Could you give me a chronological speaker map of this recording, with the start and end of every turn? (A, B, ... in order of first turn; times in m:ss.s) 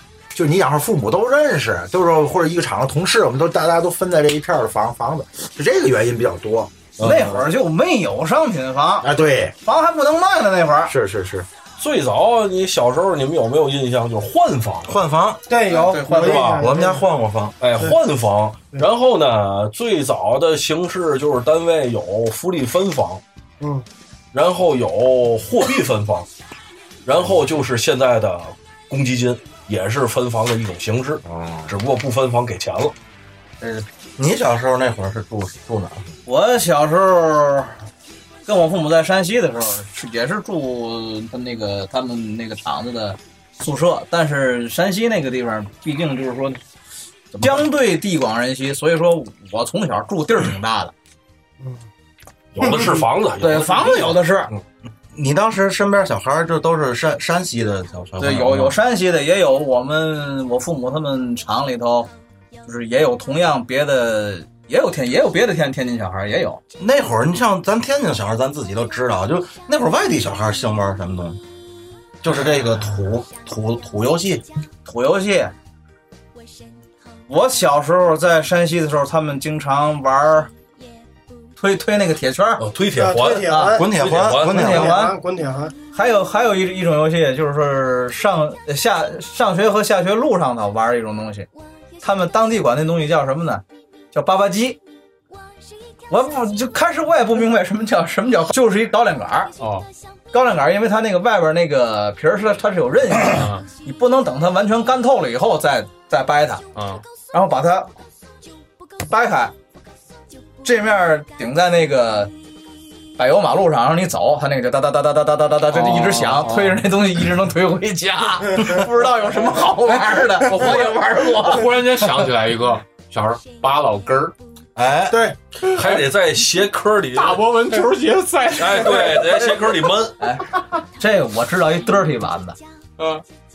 0:00.3-0:06.7 A
0:07.0-0:07.4 B
0:07.0-0:10.9 C
0:09.0-0:09.6 A
0:10.8-0:11.5 A
0:11.8-0:15.0 B
0:14.8-0:15.4 D
0:15.5-0:17.0 E
0:15.6-0:16.5 C
0:16.1-0:16.7 B
0:16.6-0:17.6 D
0:17.6-0:23.2 B
0:23.6-0:23.8 E
0:24.3-0:26.3 B
0:27.0-0:32.9 B
0:31.2-0:31.7 A
0:34.2-0:36.1 D
0:36.2-0:37.7 C
0:38.4-0:46.6 C
0:47.3-0:50.9 C
0:52.5-0:54.6 B
0:53.4-0:54.5 C
0:55.1-0:58.8 D
0:58.2-1:02.1 C
1:02.6-1:06.6 C
1:06.8-1:11.4 D
1:12.2-1:14.4 D
1:14.8-1:15.5 C
1:17.3-1:20.5 C
1:21.6-1:22.6 C
1:22.6-1:24.9 B
1:22.9-1:25.7 E
1:23.4-1:23.8 C
1:23.7-1:24.9 D
1:24.4-1:25.2 C
1:25.9-1:31.5 C
1:32.0-1:34.8 C
1:36.1-1:39.5 C
1:39.6-1:39.9 F
1:40.3-1:46.6 C
1:43.2-1:43.7 F
1:46.7-1:47.0 F
1:47.3-1:47.9 C
1:49.0-1:49.5 C
1:50.6-1:52.3 C
1:53.2-2:01.7 C
1:55.7-1:56.8 F
2:00.4-2:04.3 F
2:04.8-2:05.2 D
2:05.1-2:05.4 E
2:05.7-2:07.5 B
2:05.8-2:06.0 F
2:07.1-2:09.5 F
2:08.6-2:10.2 B
2:10.2-2:12.6 C
2:13.0-2:13.2 F